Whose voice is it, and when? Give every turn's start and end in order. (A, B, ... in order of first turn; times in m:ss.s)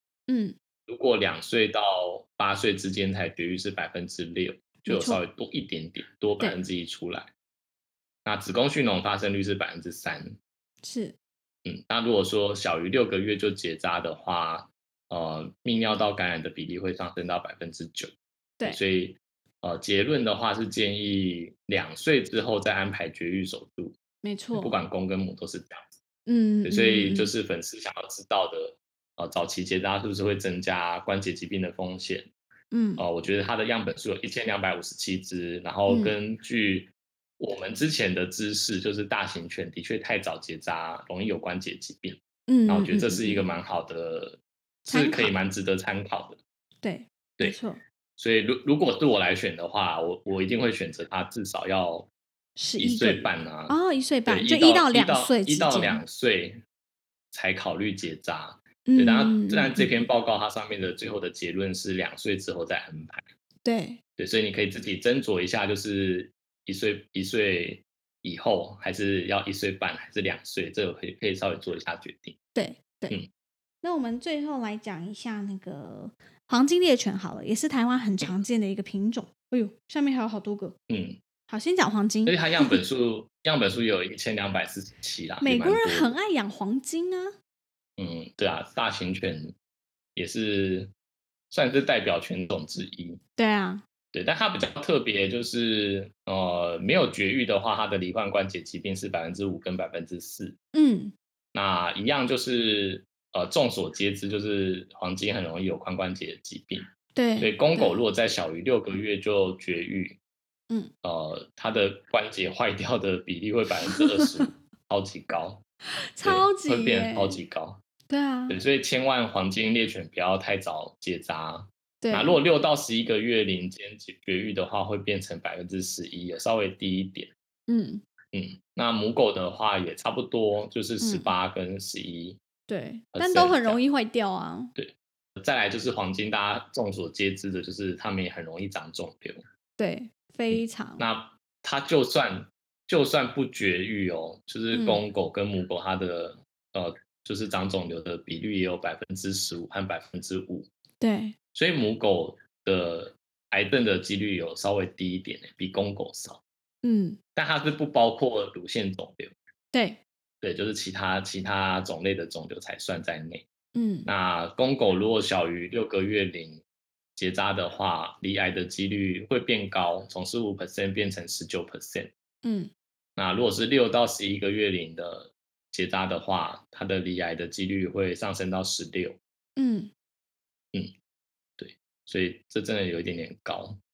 0:00.3-0:00.5 A
0:00.9-0:07.3 B
0:04.9-0:05.2 A
0:08.2-0:10.4 B
0:10.8-0:11.1 A
0:11.6-0:18.1 B
0:18.6-0:24.0 B
0:24.2-0:24.8 A
0:24.5-0:25.9 B
0:26.2-0:27.3 A
0:26.6-0:32.3 B
0:32.7-0:33.0 A
0:33.0-0:46.4 B
0:35.9-0:36.1 A
0:42.5-0:43.4 A
0:44.9-0:45.4 A
0:46.8-0:47.8 A
0:48.2-0:52.1 B
0:52.6-0:56.0 A
0:52.8-0:56.6 B
0:57.3-1:03.2 B
0:58.9-1:00.0 A
1:03.6-1:04.0 A
1:04.2-1:12.4 B
1:12.5-1:13.2 A
1:13.8-1:20.7 A
1:20.9-1:21.2 B
1:21.5-1:22.8 A
1:22.2-1:26.1 B
1:25.4-1:27.3 A
1:28.0-1:29.5 B
1:30.2-1:30.9 B
1:31.5-1:33.2 B
1:33.4-1:33.8 A
1:34.1-1:40.6 B
1:40.7-1:41.1 A
1:41.5-1:50.2 B
1:47.1-1:48.0 A
1:51.0-1:55.6 B
1:53.8-1:54.5 A
1:56.0-1:57.4 A
1:56.2-1:57.8 B
1:58.1-1:58.6 A
1:58.5-2:07.3 B
2:02.0-2:02.4 A
2:07.7-2:08.0 A
2:08.3-2:12.4 B
2:11.0-2:11.3 A
2:12.7-2:14.7 A
2:13.1-2:13.8 B
2:14.8-2:19.4 B
2:19.8-2:21.0 A
2:20.5-2:30.7 B
2:24.7-2:25.0 A
2:31.0-2:31.3 A
2:31.5-2:36.4 B
2:36.8-2:37.2 A
2:37.4-2:39.3 B
2:39.7-2:40.0 A
2:40.4-2:43.4 B
2:43.7-2:44.1 A
2:44.0-2:46.6 B
2:47.2-2:52.1 B
2:52.4-2:52.7 A
2:53.2-2:59.2 B
2:59.6-2:59.9 A
3:01.6-3:03.8 B